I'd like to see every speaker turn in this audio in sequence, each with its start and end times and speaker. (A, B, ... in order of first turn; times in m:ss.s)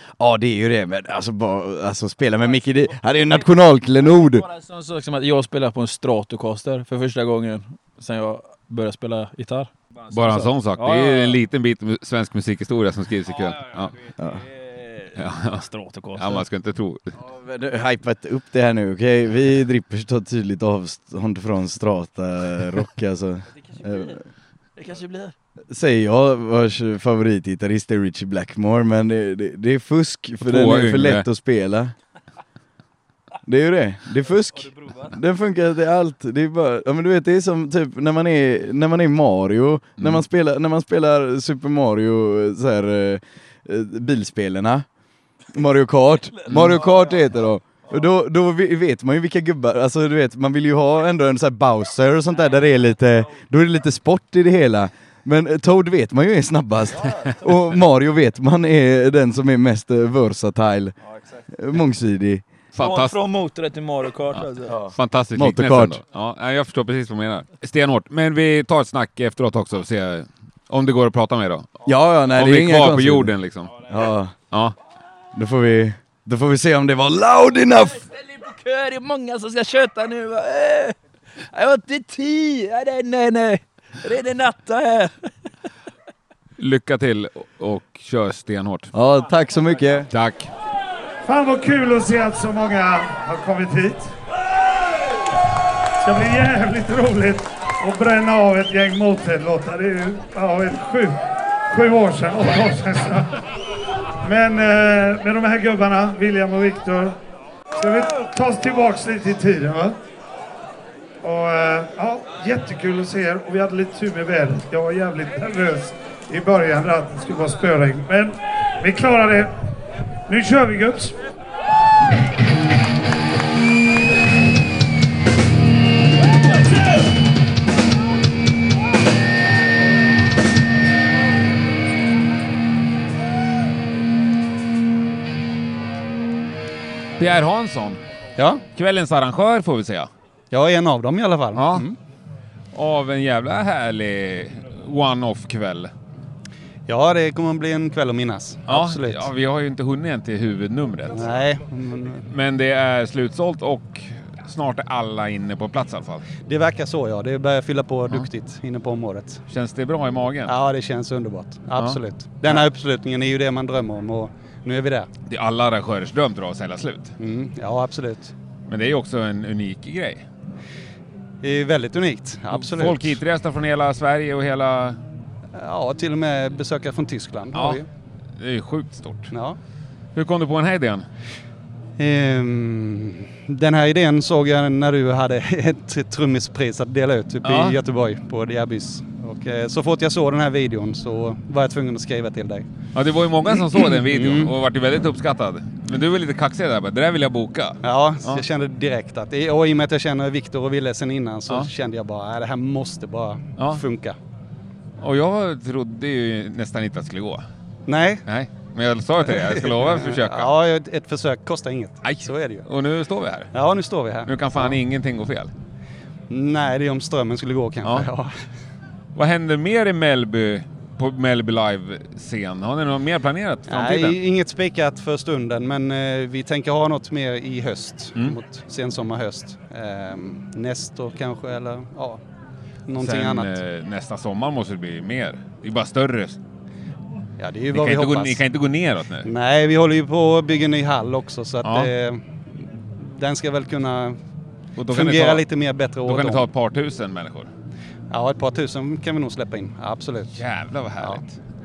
0:00.2-0:04.5 A
0:04.2-0:11.4 B
0:10.1-0:14.0 C
0:13.3-0:16.4 B
0:14.2-0:14.4 A
0:15.2-0:17.1 C
0:17.2-0:24.2 A
0:23.6-0:24.1 B
0:24.8-0:25.3 B
0:25.7-0:31.9 A
0:30.4-0:31.2 C
0:33.4-0:44.8 A
0:34.2-0:35.1 B
0:45.5-1:02.4 A
0:46.4-0:47.0 B
0:46.5-0:46.8 C
1:02.7-1:03.2 C
1:02.8-1:04.8 B
1:04.6-1:06.0 A
1:04.9-1:11.7 C
1:11.8-1:14.3 A
1:12.3-1:13.8 C
1:14.5-1:14.8 C
1:15.3-1:18.1 A
1:18.0-1:21.0 B
1:21.5-1:25.5 B
1:26.6-1:28.9 C
1:28.9-1:30.1 A
1:30.1-1:30.5 C
1:31.2-1:34.1 D
1:36.0-1:43.4 D
1:44.2-1:47.2 D
1:47.8-1:49.9 D
1:51.2-1:59.5 D
2:00.3-2:01.2 D
2:17.2-2:18.0 C
2:18.4-2:18.6 E
2:18.7-2:20.1 C
2:20.5-2:22.0 E
2:21.5-2:21.8 C
2:22.7-2:25.9 C
2:26.9-2:29.3 E
2:28.7-2:31.3 C
2:31.1-2:32.2 E
2:32.2-2:36.2 C
2:36.4-2:39.4 E
2:39.5-2:40.5 C
2:40.4-2:45.1 E
2:41.8-2:42.6 C
2:45.3-2:47.1 C
2:47.2-2:48.3 E
2:48.7-2:50.2 C
2:51.4-2:53.2 E
2:52.5-2:55.0 C
2:55.5-2:57.8 E
2:57.5-2:57.8 C
2:58.4-2:59.3 C
2:59.3-2:59.6 E
3:00.1-3:01.1 C
3:02.0-3:12.7 E
3:07.4-3:07.8 C
3:12.9-3:18.4 C
3:13.5-3:14.5 E
3:17.8-3:24.2 E
3:23.6-3:23.8 C
3:25.0-3:27.4 C
3:27.8-3:28.2 E
3:28.2-3:30.5 C
3:29.3-3:32.7 E
3:32.0-3:33.5 C
3:33.5-3:34.8 E
3:34.2-3:35.5 C
3:36.3-3:38.3 E
3:37.8-3:38.1 C
3:39.1-3:44.2 C
3:43.7-3:52.2 E
3:52.9-3:53.6 E
3:53.0-3:56.4 C
3:57.4-3:58.4 E
3:57.7-3:59.3 C
3:59.2-4:04.2 E
4:01.6-4:01.9 C
4:04.8-4:05.4 C
4:04.9-4:06.4 E
4:06.0-4:07.5 C
4:08.1-4:10.4 E
4:10.3-4:11.4 C